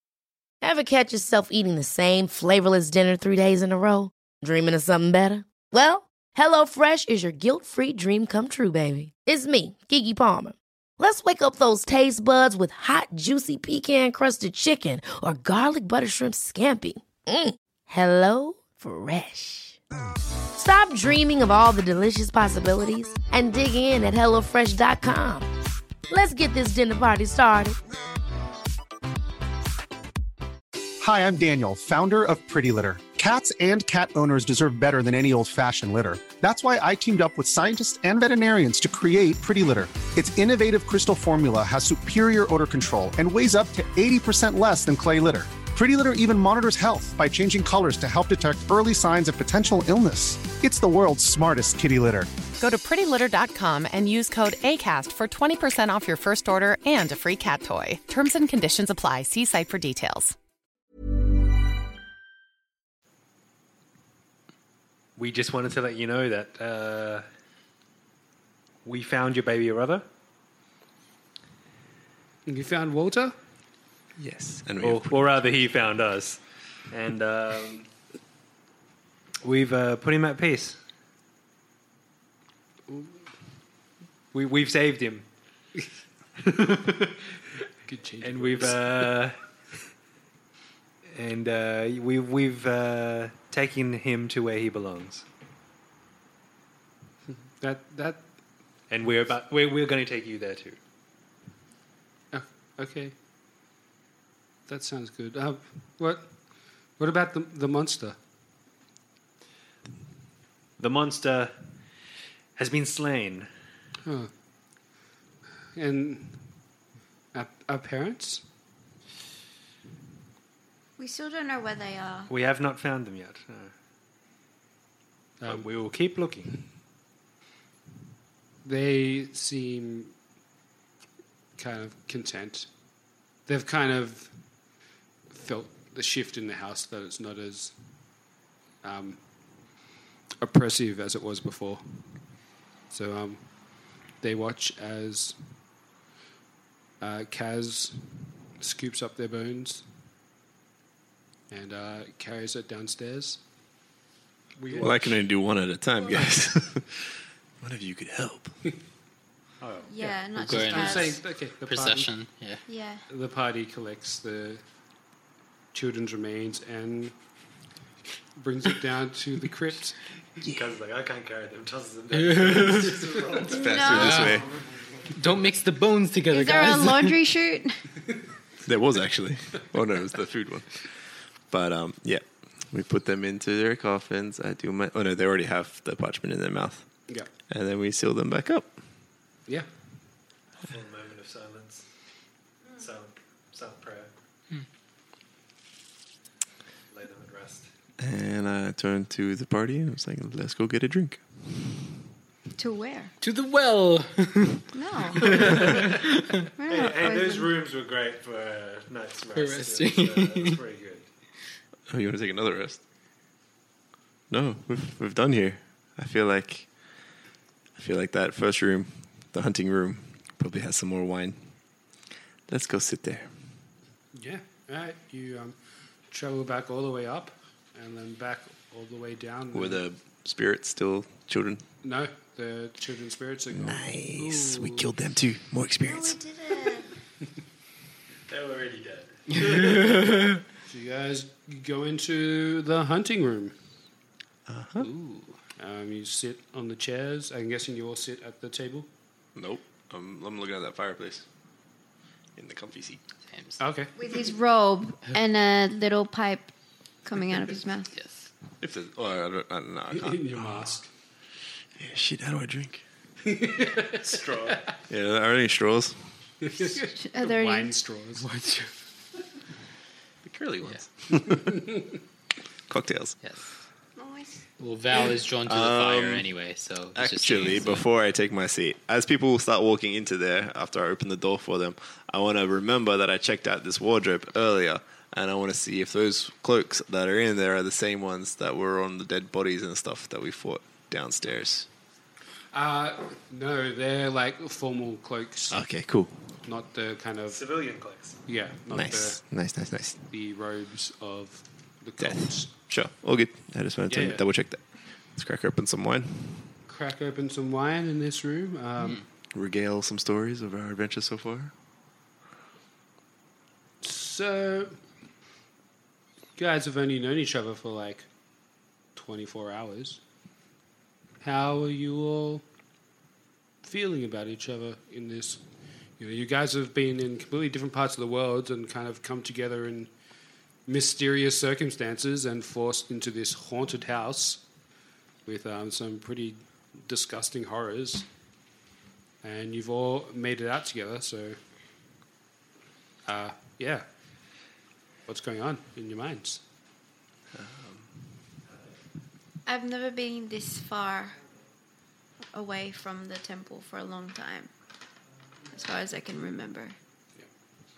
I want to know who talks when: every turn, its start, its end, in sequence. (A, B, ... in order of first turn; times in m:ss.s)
0:00.6-0:19.8 A
0:20.5-0:25.5 A
0:26.1-0:27.8 A
0:31.0-0:52.3 B
0:52.6-1:00.4 C
1:05.2-1:07.2 D
1:08.8-1:10.0 D
1:12.4-1:13.4 E
1:14.2-1:15.5 F
1:14.8-1:16.4 D
1:16.9-1:17.9 D
1:19.4-1:20.8 D
1:22.9-1:23.2 E
1:24.3-1:25.2 D
1:26.4-1:27.2 D
1:27.8-1:29.2 E
1:28.2-1:29.4 D
1:31.1-1:35.2 D
1:37.6-1:38.2 E
1:38.9-1:40.8 D
1:42.3-1:43.1 E
1:44.7-1:46.3 E
1:47.0-1:48.2 E
1:50.8-1:51.5 D
1:52.6-1:53.5 D
1:54.0-1:54.3 E
1:55.8-1:56.6 E
1:57.3-1:58.4 E
2:01.0-2:02.3 G
2:02.3-2:03.7 D
2:05.4-2:05.7 E
2:05.4-2:06.6 D
2:08.6-2:10.1 E
2:11.6-2:12.7 E
2:13.4-2:14.3 E
2:15.3-2:17.7 E
2:18.8-2:19.2 E
2:20.4-2:22.0 E
2:22.9-2:23.4 E
2:24.2-2:25.4 E
2:27.0-2:29.8 E
2:31.5-2:33.4 E
2:34.6-2:35.2 D
2:34.8-2:37.1 F
2:37.6-2:38.7 F
2:39.6-2:40.2 D
2:39.9-2:41.2 G
2:40.4-2:42.1 E
2:40.4-2:42.6 H
2:42.7-2:43.0 G
2:43.1-2:44.6 E
2:45.7-2:47.1 E
2:48.4-2:50.0 E
2:50.5-2:54.3 D
2:52.1-2:53.0 H
2:53.4-2:54.5 F
2:53.6-2:54.4 G
2:53.9-2:54.4 H
2:55.1-2:57.2 H
2:56.3-2:57.9 G
2:58.6-3:00.9 F
3:01.5-3:06.8 F
3:07.5-3:08.7 F
3:10.6-3:11.8 D
3:12.8-3:14.1 D
3:16.9-3:17.7 D
3:18.0-3:21.2 F
3:22.5-3:23.1 G
3:23.2-3:26.4 H
3:24.7-3:25.8 G
3:25.5-3:26.0 D
3:26.6-3:27.6 G
3:26.6-3:31.1 D
3:29.3-3:30.6 H
3:31.9-3:32.8 F
3:34.3-3:36.7 F
3:37.8-3:41.4 F
3:42.5-3:43.3 F
3:44.1-3:45.6 E
3:46.1-3:49.8 E
3:49.5-3:51.6 F
3:51.8-3:54.9 E
3:53.5-3:56.2 F
3:55.8-3:56.9 G
3:58.3-4:00.2 D
4:00.7-4:03.5 E
4:04.5-4:04.9 F
4:04.8-4:08.9 E
4:09.4-4:11.2 F
4:12.4-4:13.0 F
4:13.3-4:13.6 H
4:13.6-4:13.9 E
4:14.0-4:16.5 G
4:17.0-4:17.9 G
4:17.9-4:18.3 H
4:18.6-4:20.7 F
4:19.9-4:20.9 E
4:21.8-4:22.8 F
4:23.2-4:24.2 E
4:23.8-4:24.7 D
4:24.9-4:26.0 F
4:26.4-4:28.3 E
4:26.7-4:27.7 G
4:28.2-4:28.7 H
4:30.2-4:31.7 F
4:31.5-4:31.8 E
4:32.7-4:33.2 F
4:33.2-4:33.6 H
4:34.0-4:34.4 G
4:34.6-4:37.8 H
4:35.4-4:36.3 F
4:36.9-4:51.7 F
4:52.5-4:55.6 E
4:55.5-4:56.1 F
4:56.4-4:57.4 E
4:57.3-4:58.2 D
4:58.2-4:59.2 E
4:58.7-5:00.0 F
5:00.1-5:02.5 E
5:02.0-5:04.6 F
5:03.9-5:04.2 E
5:05.1-5:06.5 F
5:06.7-5:09.0 E
5:09.3-5:11.5 F
5:13.8-5:14.8 E
5:16.4-5:18.1 E
5:18.9-5:20.0 E
5:21.2-5:22.4 E
5:23.6-5:25.4 E
5:26.0-5:29.9 E
5:30.7-5:34.4 E
5:35.2-5:38.0 E
5:39.2-5:41.4 E
5:43.0-5:43.8 E
5:45.1-5:46.4 E
5:47.3-5:47.9 F
5:49.4-5:51.2 G
5:52.3-5:54.5 G
5:55.5-5:56.8 G